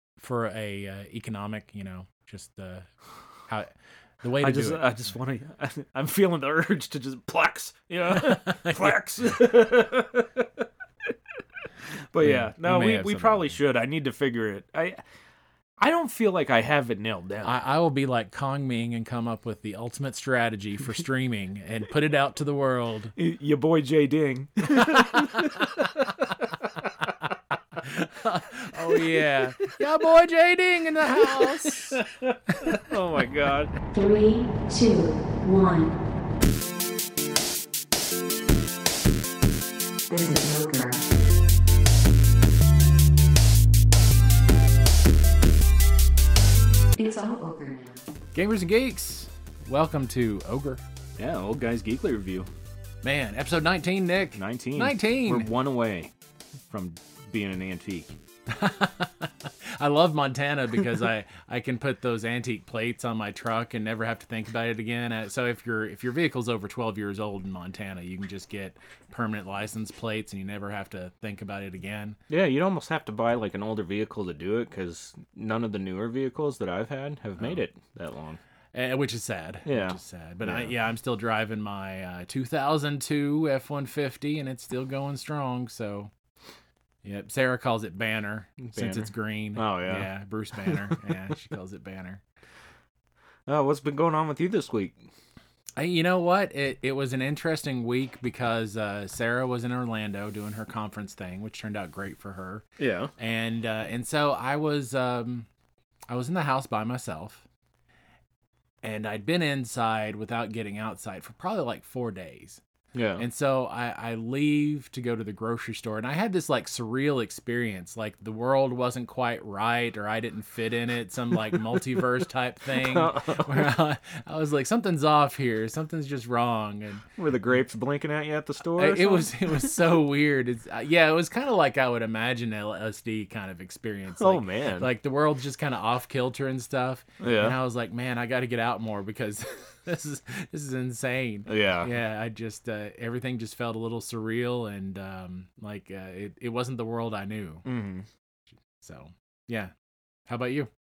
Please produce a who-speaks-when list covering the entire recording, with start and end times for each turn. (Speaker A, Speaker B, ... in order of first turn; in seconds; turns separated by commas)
Speaker A: 0.2-2.9, Speaker A: 3.5-4.8, Speaker B: 4.4-10.6, Speaker A: 8.1-8.9, Speaker B: 12.1-15.0, Speaker A: 12.2-13.6, Speaker B: 15.8-17.5, Speaker A: 17.4-23.1, Speaker B: 23.1-27.1, Speaker A: 24.8-25.6, Speaker A: 27.8-32.0, Speaker B: 28.8-29.1, Speaker B: 31.2-33.7, Speaker C: 33.9-36.0, Speaker C: 40.1-41.0, Speaker C: 46.9-48.0, Speaker A: 48.3-50.8, Speaker B: 51.2-52.5, Speaker A: 53.0-55.5, Speaker B: 54.4-56.1, Speaker B: 56.7-58.1, Speaker A: 58.5-72.2, Speaker B: 72.3-78.4, Speaker A: 78.7-86.1, Speaker B: 79.6-80.7, Speaker A: 87.0-92.2, Speaker B: 88.7-91.2, Speaker B: 93.5-95.1, Speaker A: 95.8-102.6, Speaker B: 102.8-103.1, Speaker A: 103.2-105.5, Speaker A: 106.1-107.4, Speaker A: 108.8-112.6, Speaker B: 112.9-113.2, Speaker A: 113.2-127.0, Speaker B: 121.5-121.8, Speaker B: 122.7-123.7, Speaker B: 127.2-129.8, Speaker A: 128.8-147.7, Speaker B: 134.2-134.9, Speaker B: 137.2-137.6, Speaker B: 141.5-141.9, Speaker B: 147.7-148.1, Speaker A: 148.8-149.7, Speaker A: 150.3-150.7